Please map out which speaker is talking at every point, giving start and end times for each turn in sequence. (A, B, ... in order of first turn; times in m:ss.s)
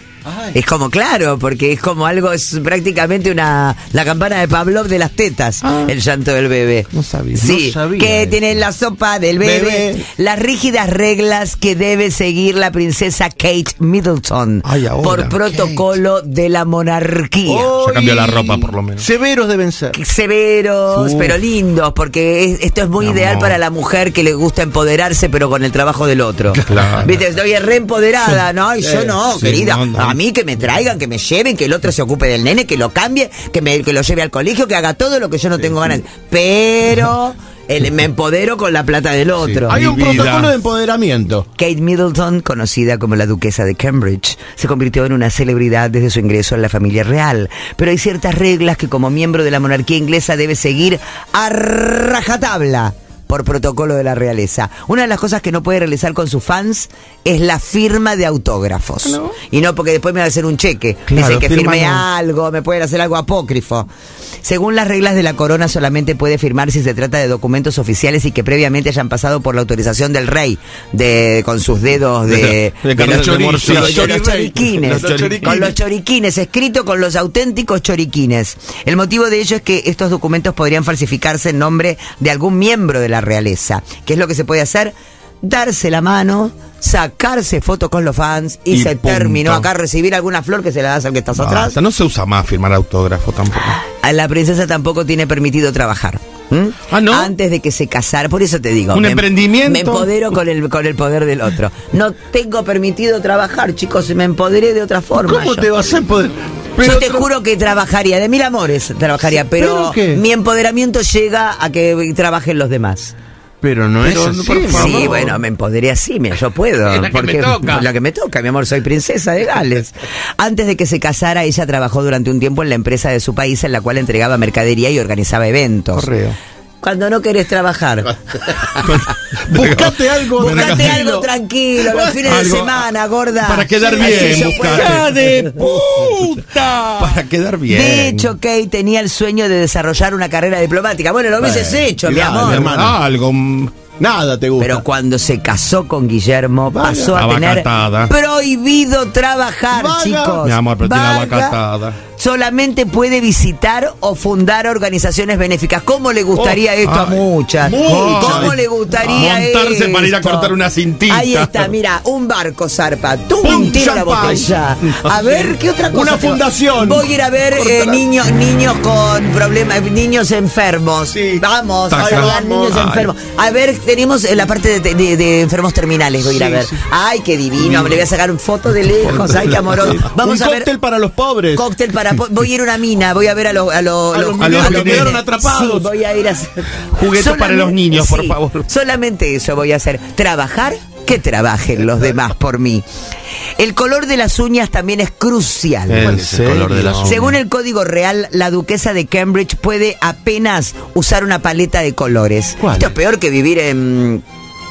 0:00.2-0:00.6 A
0:00.5-0:17.7 B
0:05.6-0:05.9 C
0:06.9-0:07.5 C
0:07.3-0:08.5 A
0:09.4-0:10.0 A
0:14.6-0:15.4 C
0:17.5-0:20.0 A
0:17.8-0:19.1 C
0:19.9-0:39.8 B
0:20.9-0:21.4 C
0:23.0-0:23.6 C
0:26.5-0:27.1 A
0:26.7-0:27.1 C
0:28.8-0:29.2 A
0:29.3-0:30.2 C
0:39.4-0:40.5 C
0:39.6-0:41.4 A
0:41.6-1:03.9 B
0:59.0-0:59.3 C
1:01.1-1:02.0 C
1:04.4-1:31.8 B
1:12.3-1:14.2 C
1:13.0-1:15.8 A
1:14.8-1:15.7 C
1:28.7-1:29.7 C
1:31.4-1:33.8 C
1:33.7-1:45.7 B
1:36.9-1:37.3 C
1:38.9-1:40.1 C
1:45.2-1:47.3 A
1:46.8-1:53.1 B
1:49.3-1:50.2 A
1:53.6-1:55.3 A
1:54.0-1:55.4 C
1:54.7-2:06.1 B
1:56.9-1:57.8 A
2:05.9-2:06.4 C
2:06.8-2:08.8 B
2:08.8-2:11.1 C
2:09.5-2:11.3 A
2:10.4-2:15.4 B
2:11.9-2:12.7 A
2:12.2-2:12.7 C
2:13.4-2:18.3 C
2:13.8-2:17.1 A
2:17.7-2:22.7 B
2:21.4-2:23.0 A
2:22.1-2:23.7 C
2:24.0-2:24.8 A
2:24.6-2:31.6 B
2:26.7-2:27.1 A
2:26.8-2:28.1 C
2:29.7-2:30.4 A
2:30.4-2:32.0 C
2:32.2-2:40.6 B
2:36.8-2:37.2 C
2:37.6-2:38.6 A
2:37.8-2:41.7 C
2:41.1-3:00.7 B
2:43.4-2:45.4 C
2:45.9-2:48.0 A
2:51.1-2:52.9 A
2:51.9-2:53.1 C
2:56.2-2:56.8 A
2:57.6-2:58.0 A
2:59.0-3:00.1 C
2:59.5-3:01.6 A
3:01.5-3:12.8 B
3:04.1-3:05.9 A
3:04.4-3:05.2 C
3:06.9-3:08.6 C
3:13.6-3:16.0 B
3:15.9-3:17.2 C
3:16.0-3:17.4 A
3:17.0-3:24.2 B
3:22.6-3:22.9 A